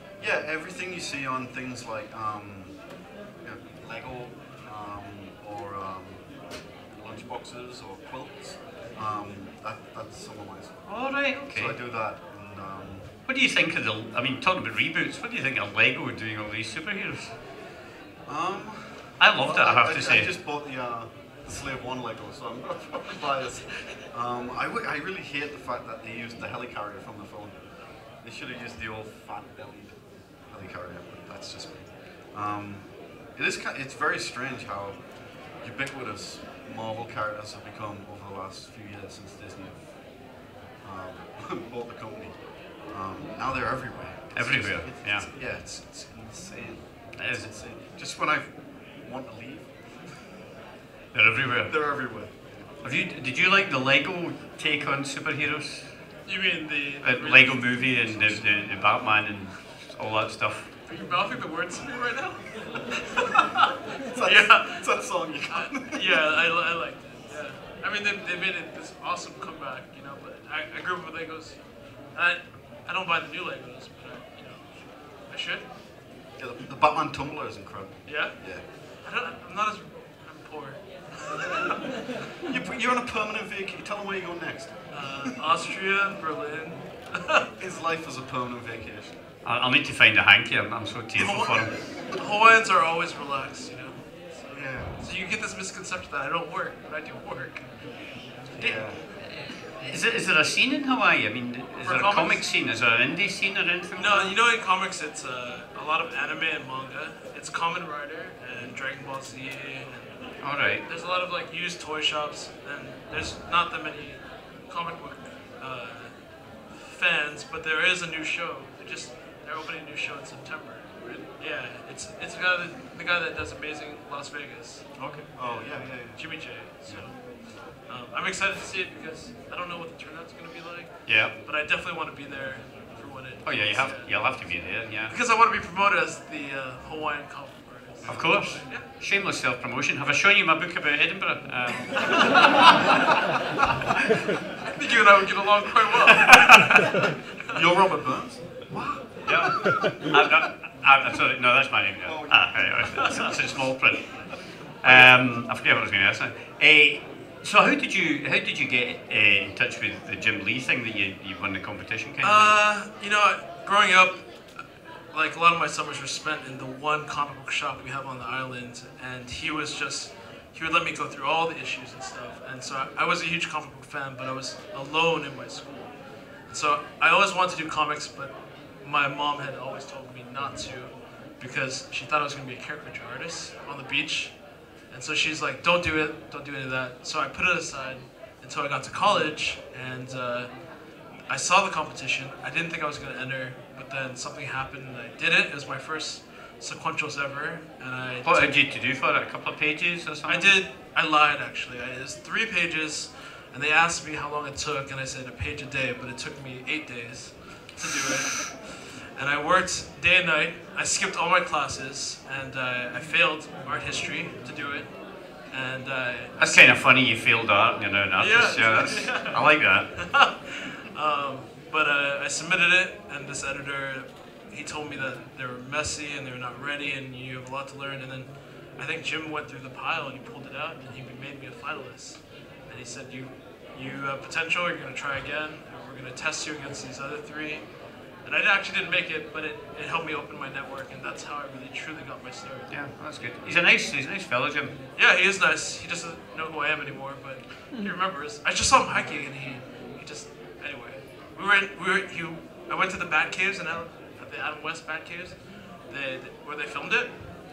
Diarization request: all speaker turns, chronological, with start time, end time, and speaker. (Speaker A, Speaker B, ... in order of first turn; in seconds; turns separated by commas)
Speaker A: 0.2-2.9, Speaker A: 3.4-13.1, Speaker B: 10.9-11.8, Speaker B: 13.3-17.3, Speaker A: 18.3-50.1, Speaker B: 19.2-20.3, Speaker B: 44.3-45.3, Speaker B: 47.2-47.5, Speaker B: 51.1-51.8, Speaker A: 51.7-52.6, Speaker B: 52.8-56.2, Speaker C: 56.2-58.5, Speaker B: 57.0-60.7, Speaker C: 60.9-63.0, Speaker A: 64.1-66.2, Speaker C: 64.2-75.7, Speaker A: 76.3-78.7, Speaker C: 78.0-81.7, Speaker A: 82.5-85.3, Speaker C: 84.9-87.5, Speaker A: 87.6-89.1, Speaker B: 89.4-91.7, Speaker C: 91.2-98.9, Speaker A: 94.5-95.0, Speaker A: 98.5-99.0, Speaker B: 98.6-104.3, Speaker C: 101.8-102.5, Speaker C: 104.0-138.9, Speaker B: 110.4-110.8, Speaker A: 121.0-121.3, Speaker A: 125.0-127.1, Speaker B: 131.1-131.3, Speaker B: 133.4-135.2, Speaker A: 138.0-138.6, Speaker B: 138.1-142.4, Speaker C: 144.7-146.9, Speaker A: 147.5-149.7, Speaker B: 149.2-162.6, Speaker A: 152.0-154.3, Speaker A: 154.8-155.1, Speaker C: 162.2-198.6, Speaker B: 198.2-200.6, Speaker C: 200.3-216.7, Speaker B: 216.4-220.3, Speaker C: 218.2-242.8, Speaker B: 242.7-244.8, Speaker C: 245.0-257.4